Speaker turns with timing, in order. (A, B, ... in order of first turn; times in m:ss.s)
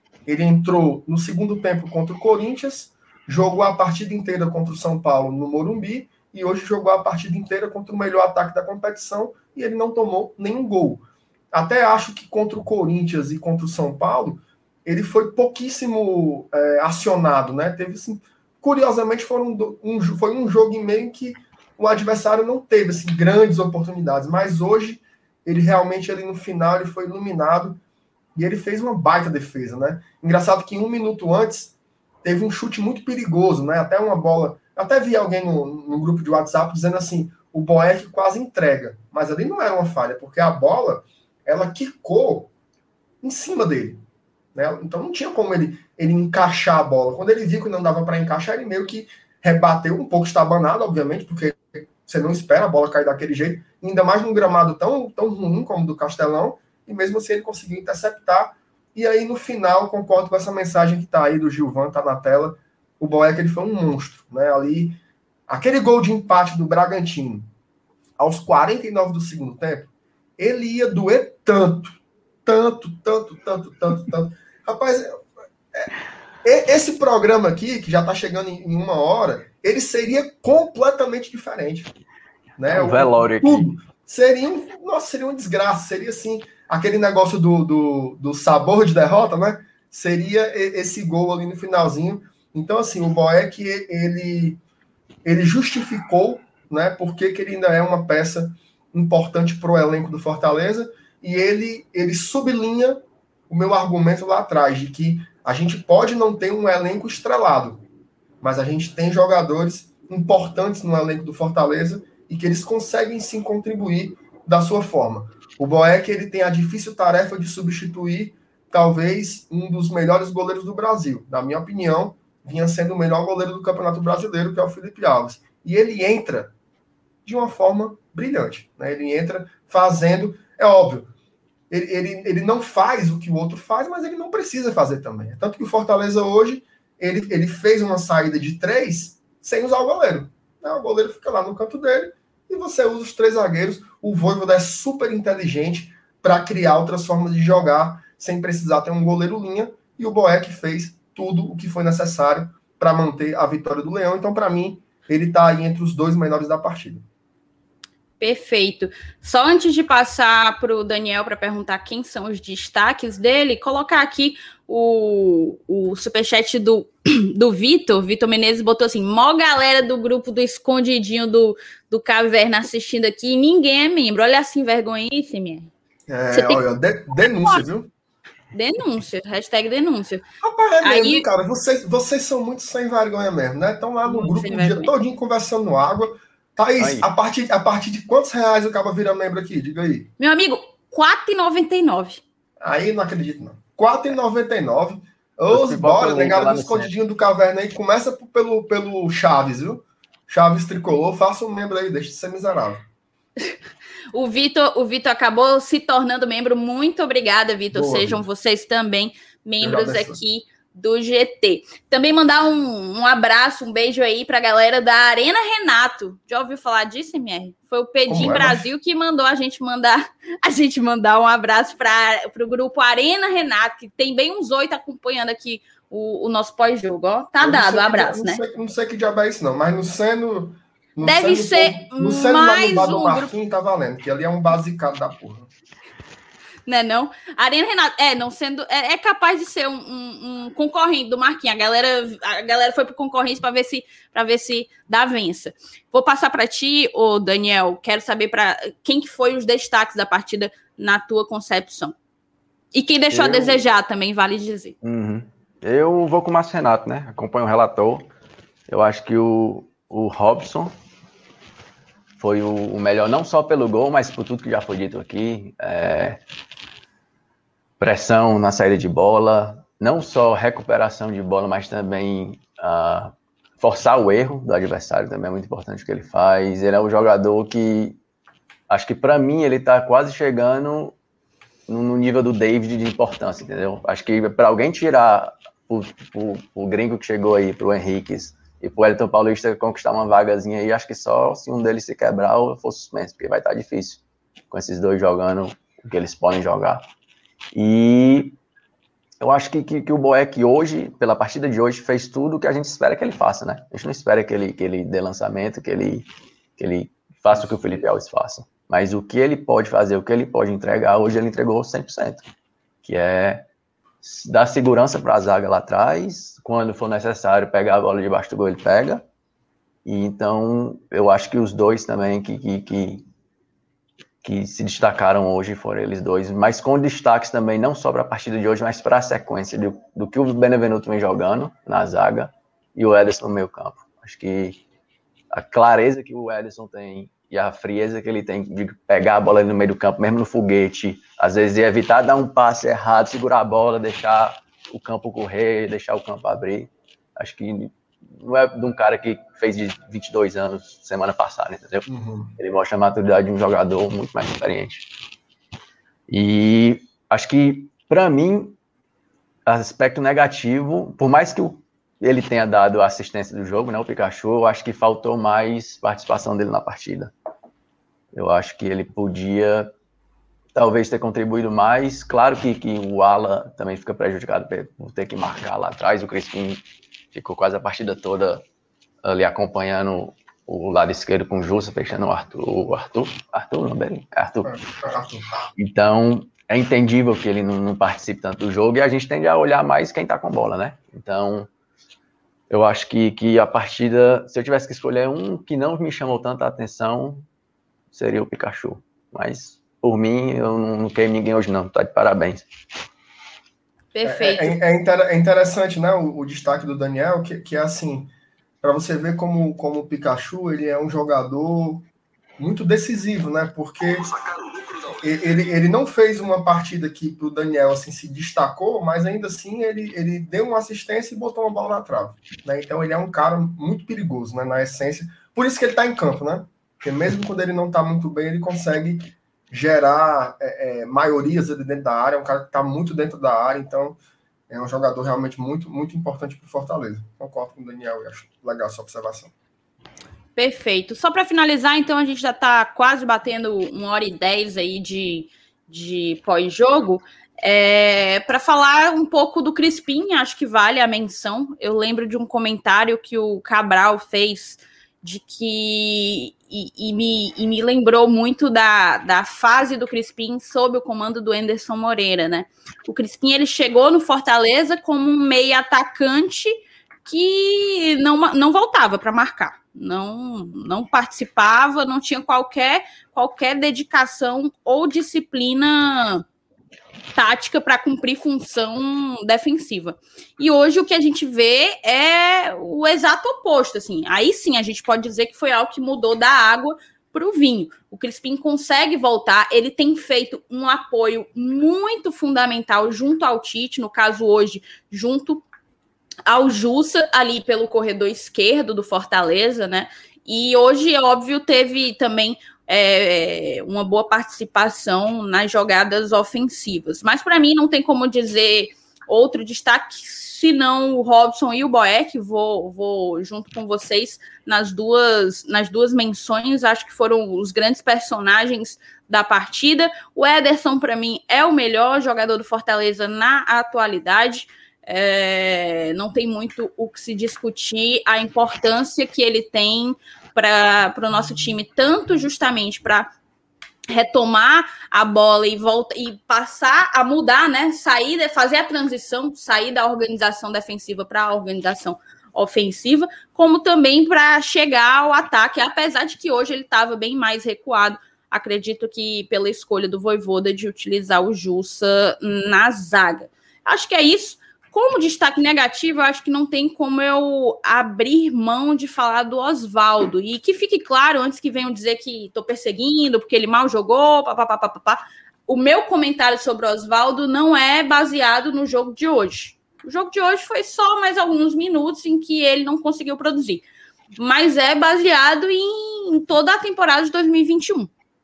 0:00.3-0:27.8 A
0:28.3-0:31.7 A
0:32.2-0:42.5 A
0:43.2-0:44.0 A
0:44.5-1:07.5 A
1:08.2-1:15.2 A
1:16.4-1:21.9 A
1:22.6-1:34.6 A
1:22.7-1:23.7 B
1:35.2-1:47.8 A
1:48.4-2:06.5 A
2:07.2-2:11.1 A
2:11.7-2:37.0 A
2:38.2-2:55.7 C
2:56.1-2:57.9 A
2:56.3-2:56.6 C
2:57.2-2:57.6 C
2:58.5-3:00.2 C
3:00.4-3:10.1 A
3:00.8-3:01.2 C
3:04.0-3:04.9 C
3:06.8-3:07.1 B
3:10.2-3:12.2 C
3:12.6-3:22.8 A
3:15.5-3:16.9 B
3:24.1-3:48.4 C
3:27.7-3:28.2 A
3:29.6-3:30.2 A
3:38.1-3:38.7 A
3:47.4-3:55.5 A
3:51.0-3:53.3 C
3:56.7-4:11.9 C
4:12.7-4:14.7 C
4:13.1-4:13.6 B
4:14.8-4:18.1 B
4:18.7-4:20.7 B
4:22.2-4:26.2 B
4:27.8-4:38.0 B
4:38.7-4:41.0 B
4:41.7-4:56.8 B
4:57.5-4:58.4 B
4:59.2-5:12.3 B
5:12.8-5:13.4 B
5:14.0-5:19.0 B
5:19.8-5:23.0 B
5:24.2-5:34.6 B
5:35.3-5:54.9 B
5:51.8-5:52.3 A
5:56.1-5:58.6 B
5:59.4-6:07.1 B
6:08.1-6:09.7 B
6:10.5-6:16.6 B
6:17.1-6:18.4 B
6:19.0-6:24.5 B
6:24.4-6:25.3 A
6:25.6-6:31.5 B
6:32.5-6:37.2 B
6:37.9-6:42.4 B
6:43.9-6:44.6 C
6:44.0-6:48.1 A
6:48.6-6:51.8 A
6:52.4-6:54.2 A
6:54.9-7:14.0 A
7:14.5-7:19.3 A
7:20.3-7:56.2 C
7:57.1-8:15.4 C
8:16.3-8:53.1 C
8:53.9-9:33.6 C
9:34.2-9:37.9 C